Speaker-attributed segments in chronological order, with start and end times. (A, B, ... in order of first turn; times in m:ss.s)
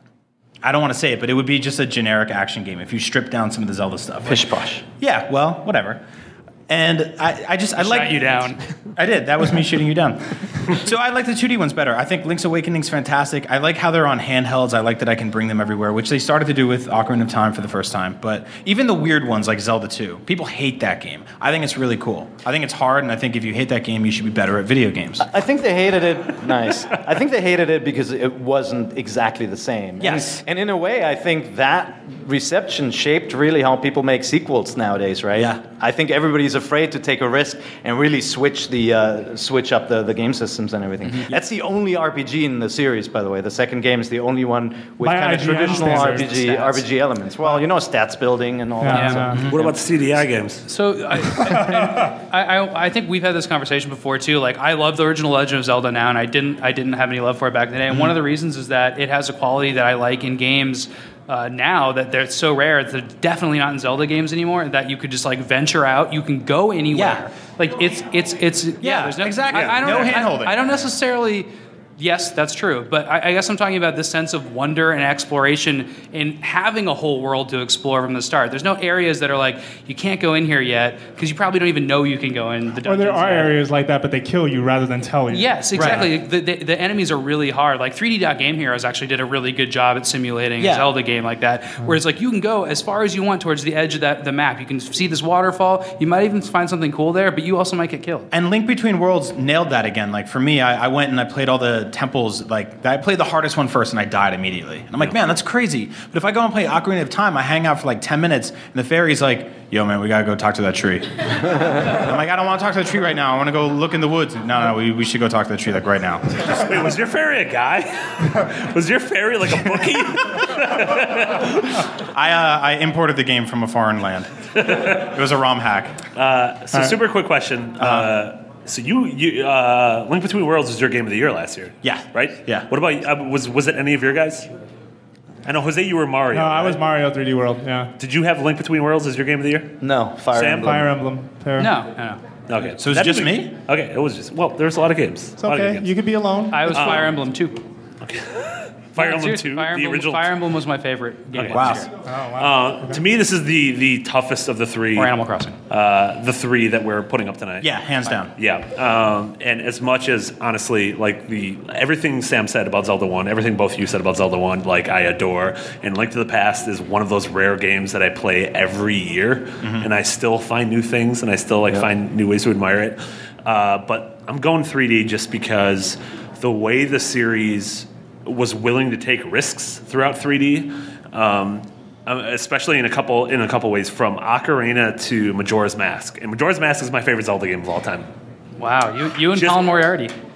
0:00.6-0:06.0 A
0:04.3-0:04.8 B
0:06.7-0:25.3 A
0:07.8-0:08.6 C
0:25.2-0:49.8 B
0:30.0-0:30.4 A
0:41.1-0:41.4 C
0:45.0-0:46.3 D
0:45.5-0:46.8 C
0:48.8-0:49.4 D
0:48.9-0:49.3 C
0:49.5-0:50.7 E
0:50.7-1:23.6 C
1:06.9-1:07.2 A
1:08.8-1:10.6 A
1:09.5-1:10.2 E
1:22.8-1:26.1 D
1:25.3-1:38.3 C
1:25.7-1:26.1 A
1:30.6-1:30.9 A
1:38.3-1:56.6 A
1:56.5-2:01.8 E
2:02.1-2:06.0 A
2:04.6-2:05.1 E
2:06.2-2:14.5 E
2:07.8-2:08.1 A
2:11.8-2:12.7 A
2:15.4-2:16.8 E
2:16.3-2:17.9 D
2:18.0-2:19.8 E
2:19.8-2:20.9 B
2:20.3-2:20.8 E
2:20.6-2:21.7 D
2:21.6-2:22.2 C
2:22.5-2:25.9 E
2:22.8-2:23.5 A
2:25.4-2:27.1 D
2:26.5-2:27.6 C
2:26.7-2:27.2 E
2:28.0-2:30.3 E
2:29.0-2:31.9 C
2:31.4-2:31.7 E
2:31.4-2:31.9 A
2:32.0-2:33.0 D
2:32.4-2:35.1 E
2:35.0-2:35.6 C
2:35.7-3:08.1 E
2:37.6-2:38.3 A
2:49.6-2:49.9 A
3:08.6-3:10.1 C
3:09.3-3:09.7 E